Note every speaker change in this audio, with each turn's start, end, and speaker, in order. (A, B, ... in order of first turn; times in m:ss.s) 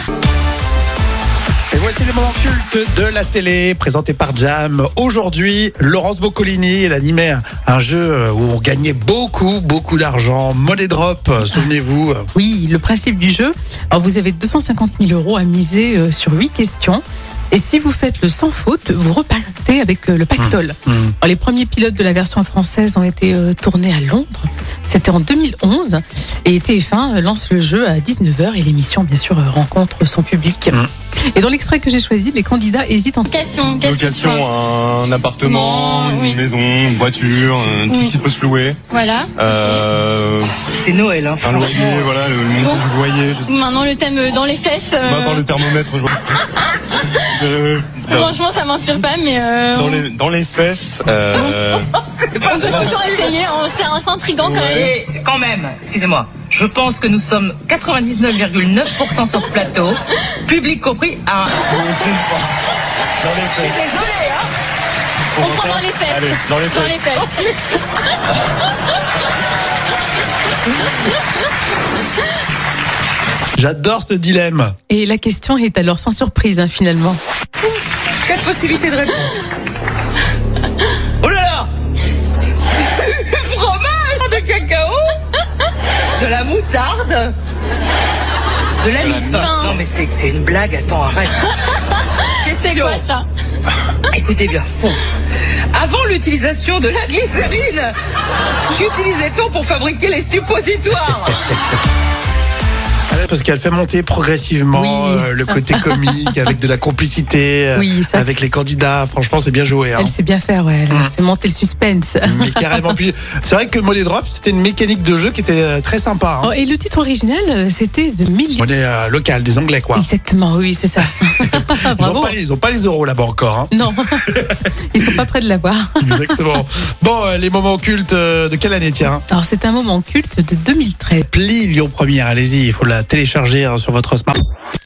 0:01.7-0:12.3 A
0:12.3-0:30.8 B
0:20.4-0:21.1 A
0:31.3-0:33.3 B
0:33.3-0:34.5 C
0:33.8-0:38.8 D
0:35.4-0:36.4 C
0:38.9-0:39.9 C
0:39.4-0:40.5 D
0:40.7-0:42.2 E
0:41.4-0:43.5 D
0:43.5-0:45.5 C
0:45.0-0:46.2 D
0:47.3-0:48.4 D
0:48.0-0:50.1 C
0:49.7-0:51.8 D
0:52.2-0:53.3 E
0:52.5-0:54.8 C
0:54.4-0:54.9 D
0:54.6-1:01.7 E
1:01.6-1:02.5 D
1:03.2-1:03.8 D
1:03.3-1:04.5 E
1:05.4-1:07.2 D
1:05.4-1:07.3 C
1:13.6-1:14.8 A
1:14.9-1:17.2 B
1:18.2-1:19.5 E
1:21.2-1:21.7 E
1:22.7-1:25.2 E
1:26.2-1:27.4 E
1:28.8-1:31.5 E
1:29.0-1:29.5 D
1:29.4-1:29.8 C
1:32.4-1:33.3 C
1:32.4-1:33.0 E
1:34.1-1:35.0 E
1:35.7-1:37.9 E
1:38.7-1:41.5 E
1:43.1-1:50.1 A
1:44.7-1:46.4 B
1:47.8-1:48.2 B
1:50.0-1:52.9 B
1:52.2-1:56.5 A
1:56.4-1:58.6 B
1:58.6-2:00.1 A
1:59.9-2:02.4 B
2:01.4-2:03.7 A
2:03.7-2:06.4 B
2:06.0-2:09.2 A
2:09.3-2:11.3 B
2:11.3-2:14.4 A